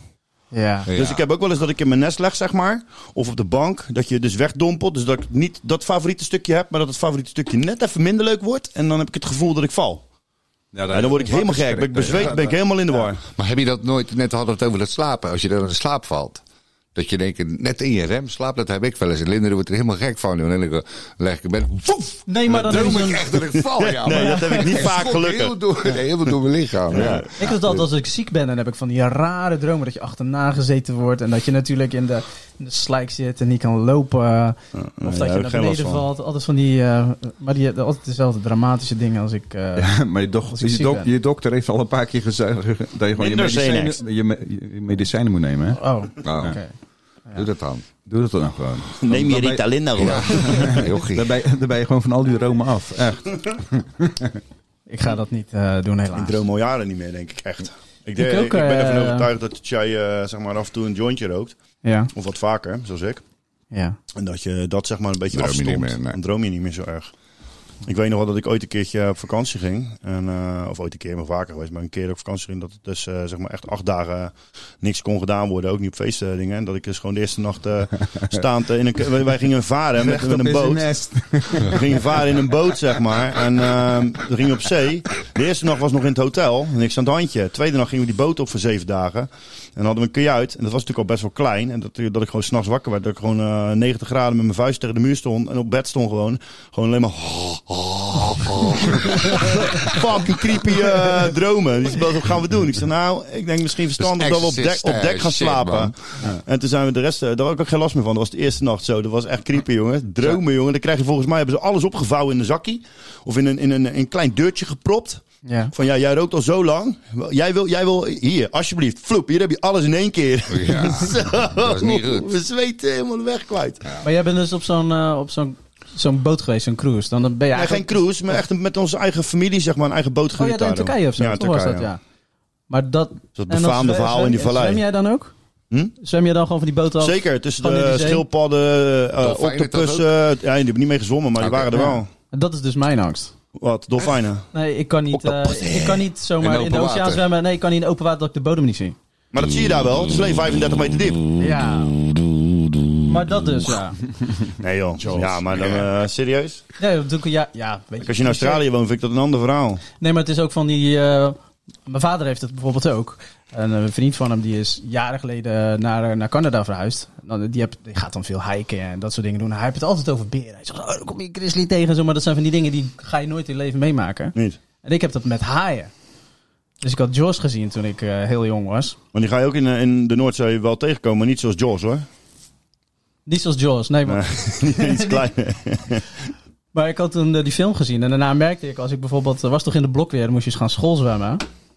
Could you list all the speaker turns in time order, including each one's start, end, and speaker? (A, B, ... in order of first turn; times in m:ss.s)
0:00.5-0:00.9 A
0:00.9-0:01.2 B
0:00.9-0:10.0 C
0:10.7-0:13.1 D
0:10.9-0:13.2 C
0:13.4-0:16.4 B
0:16.9-0:27.3 B
0:22.3-0:23.2 A
0:22.7-0:26.3 C
0:24.1-0:24.8 A
0:26.9-0:27.8 C
0:27.4-0:39.9 A
0:34.7-0:36.0 C
0:39.7-0:46.5 D
0:40.5-0:41.1 A
0:43.2-0:44.0 C
0:45.8-0:46.7 A
0:46.2-0:46.6 B
0:47.3-0:47.8 B
0:48.0-0:54.4 D
0:49.0-0:50.8 C
0:50.0-0:51.3 B
0:54.9-0:56.4 A
0:56.1-1:01.5 C
0:58.2-0:59.3 A
1:01.8-1:02.1 A
1:02.1-1:03.2 C
1:03.7-1:04.0 A
1:04.1-1:07.1 C
1:05.3-1:06.2 B
1:07.8-1:20.8 C
1:20.0-1:22.1 D
1:21.6-1:55.2 C
1:38.1-1:40.0 B
1:44.0-1:45.9 B
1:55.4-1:55.7 A
1:55.7-2:03.9 C
2:00.5-2:02.3 B
2:04.0-2:08.0 A
2:07.5-2:11.9 C
2:10.4-2:12.0 A
2:12.7-2:15.3 A
2:13.4-2:14.8 C
2:16.0-2:18.2 A
2:17.0-2:22.1 C
2:19.2-2:20.1 B
2:21.4-2:21.8 B
2:21.7-2:23.3 A
2:23.6-2:24.4 C
2:24.5-2:29.0 A
2:25.1-2:27.2 B
2:29.3-2:31.2 C
2:29.4-2:33.2 B
2:31.4-2:31.9 A
2:33.0-2:34.0 A
2:34.6-2:36.6 C
2:35.1-2:35.8 B
2:36.8-2:38.6 A
2:38.0-2:39.8 C
2:40.0-2:55.9 A
2:56.8-2:59.0 A
2:59.1-3:02.0 C
3:03.2-3:05.2 A
3:04.1-3:06.0 C
3:06.7-3:11.4 A